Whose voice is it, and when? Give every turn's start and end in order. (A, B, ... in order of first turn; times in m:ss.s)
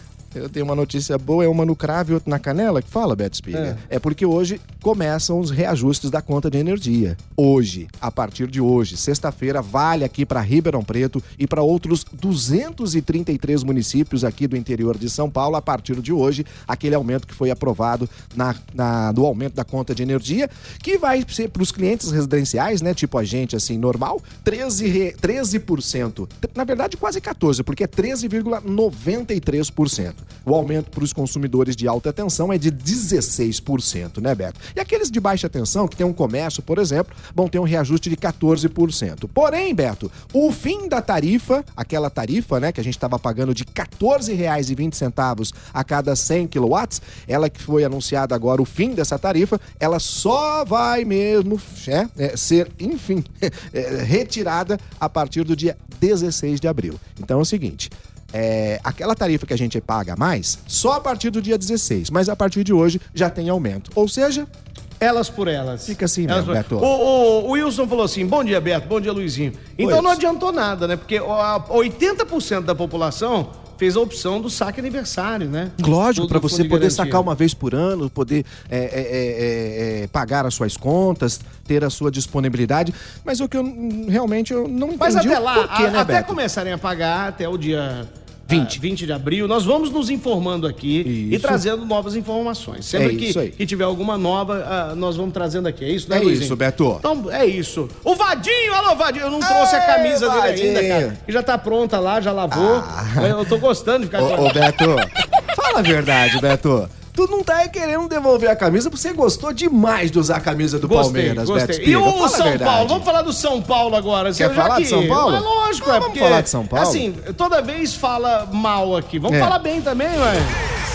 0:00.3-1:04.5 A
0:03.5-0:03.8 B
1:05.0-1:17.3 B
1:05.9-1:06.9 A
1:09.8-1:10.2 A
1:15.8-1:26.4 A
1:25.0-1:44.6 B
1:28.5-1:28.8 A
1:31.0-1:31.6 A
1:32.9-1:33.6 A
1:36.1-1:37.0 A
1:39.4-1:41.2 A
1:42.5-1:43.4 A
1:44.2-1:53.1 A
1:50.8-2:00.6 B
1:54.4-1:57.1 A
1:59.3-1:59.6 A